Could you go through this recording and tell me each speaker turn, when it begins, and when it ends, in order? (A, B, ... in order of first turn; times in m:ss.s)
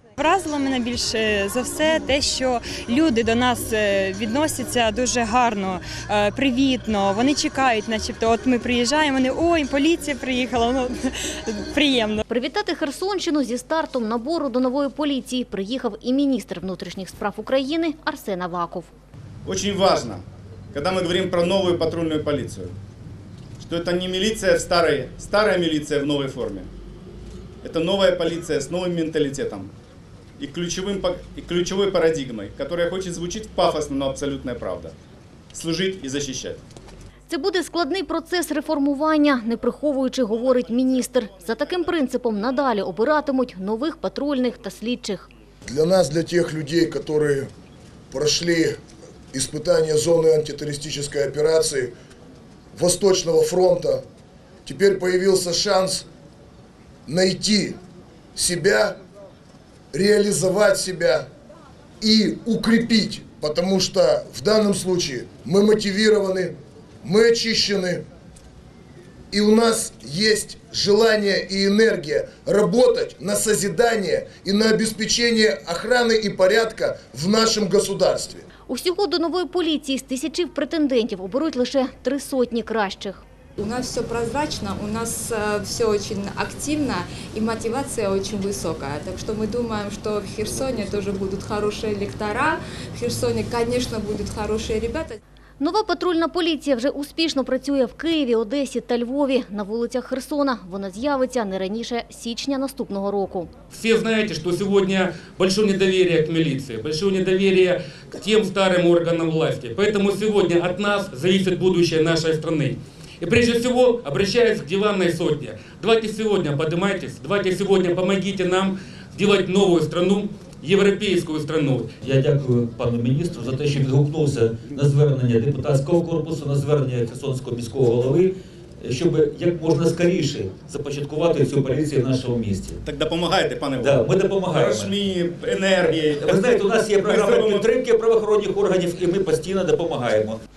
0:00.2-0:12.2 A
0:12.3-0:18.9 B
0:19.4-0:20.2 C
0:20.7-0:22.7 C
0:23.6-0:26.7 C
0:27.6-0:29.7 C
0:30.4-0:34.9 C
0:35.5-0:36.6 C
0:37.3-0:45.3 B
0:45.6-0:47.5 D
0:48.1-0:48.8 D
0:49.3-0:51.9 D
0:52.7-0:54.0 D
0:54.6-0:56.0 D
0:57.1-0:57.8 D
0:58.3-0:59.0 D
0:59.9-1:01.3 D
1:02.0-1:08.0 D
1:09.3-1:18.4 D
1:18.7-1:23.2 B
1:23.6-1:35.2 E
1:35.6-1:43.5 B
1:43.7-2:01.9 F
2:02.0-2:12.8 G
2:12.8-2:13.9 C
2:13.8-2:14.9 G
2:14.6-2:16.4 C
2:15.8-2:20.4 G
2:17.0-2:17.6 C